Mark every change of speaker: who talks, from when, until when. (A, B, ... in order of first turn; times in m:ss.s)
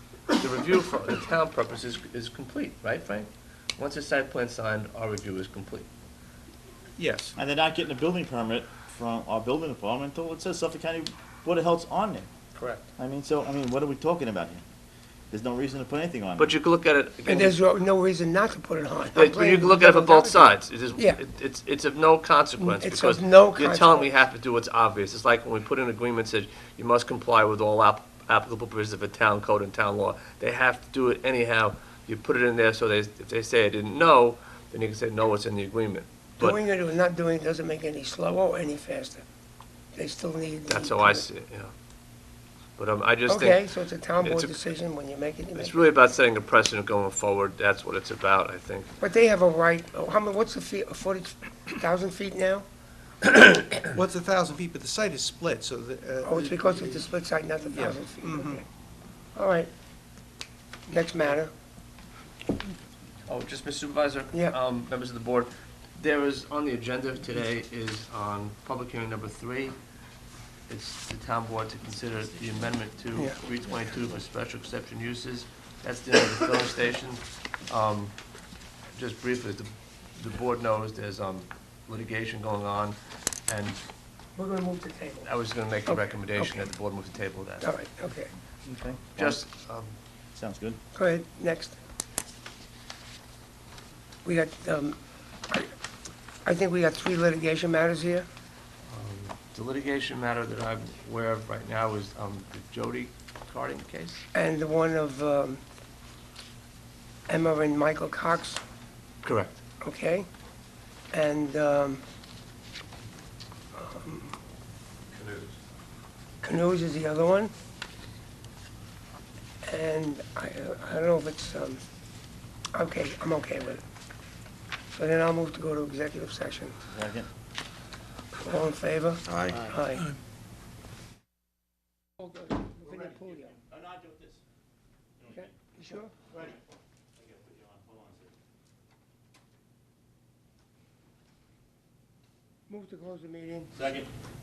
0:00.4-0:05.9 A
0:07.0-0:07.3 B
0:07.4-0:12.3 C
0:13.0-0:14.6 C
0:15.3-0:16.6 C
0:16.4-0:17.6 A
0:17.3-0:21.2 D
0:19.1-0:36.6 A
0:22.6-0:24.2 D
0:36.4-0:39.2 D
0:39.9-0:41.2 D
0:40.7-0:41.7 A
0:42.8-0:43.7 A
0:43.3-0:45.8 D
0:44.2-0:44.6 A
0:45.6-0:48.9 A
0:49.0-0:52.6 D
0:53.4-0:53.8 A
0:53.8-0:57.0 B
0:56.2-0:58.6 D
0:57.7-0:58.6 B
0:59.4-0:59.7 D
1:00.9-1:01.5 D
1:03.3-1:09.8 A
1:10.7-1:18.2 A
1:12.1-1:12.8 C
1:18.9-1:23.8 A
1:24.4-1:25.3 D
1:25.2-1:27.7 A
1:25.9-1:26.7 D
1:27.6-1:28.3 D
1:28.6-1:29.4 C
1:29.2-1:30.0 A
1:30.4-1:30.8 C
1:30.9-1:31.8 D
1:34.2-1:35.0 D
1:36.4-1:38.3 D
1:38.9-1:44.2 A
1:44.3-1:45.6 D
1:47.3-1:48.6 D
1:49.2-1:49.6 A
1:49.8-1:50.3 D
1:51.1-1:52.0 D
1:53.8-1:54.3 D
1:55.1-1:55.6 A
1:56.4-1:57.5 D
1:59.6-2:01.8 D
2:02.7-2:03.8 D
2:04.9-2:06.8 D
2:06.9-2:07.3 C
2:08.4-2:10.1 D
2:12.2-2:13.6 D
2:12.8-2:14.4 C
2:15.2-2:15.6 C
2:15.3-2:16.3 D
2:16.3-2:16.6 C
2:17.1-2:18.3 C
2:22.7-2:23.8 D
2:23.8-2:24.1 C